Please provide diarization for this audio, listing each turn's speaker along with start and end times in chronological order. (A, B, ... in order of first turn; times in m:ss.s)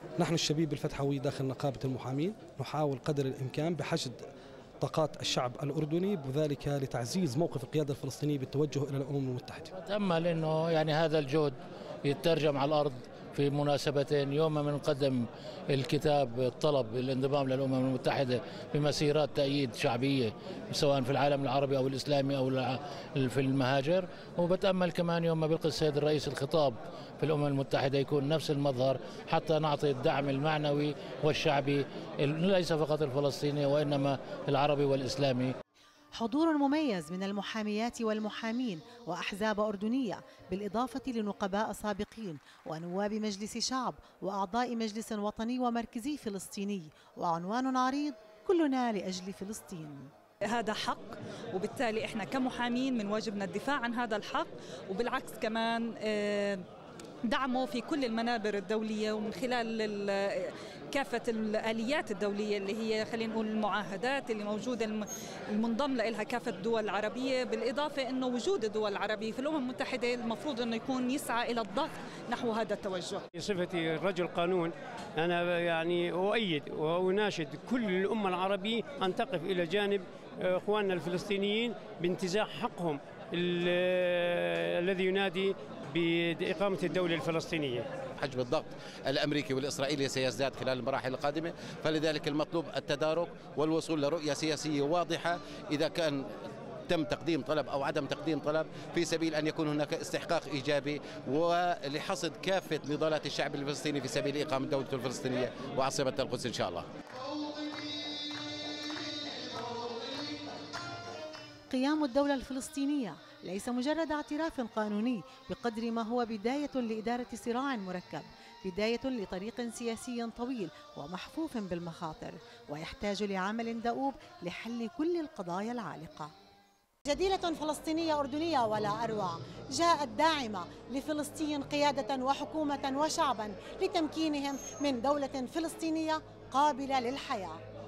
0:00.2-0:04.2 A
0:04.8-0:09.7 A
0:09.7-0:35.5 B
0:36.1-0:50.1 C
0:50.4-0:56.6 D
0:57.2-1:13.2 D
1:13.3-1:27.9 E
1:28.2-1:36.3 F
1:36.9-1:46.9 F
1:51.7-2:06.3 C
2:07.1-2:17.6 C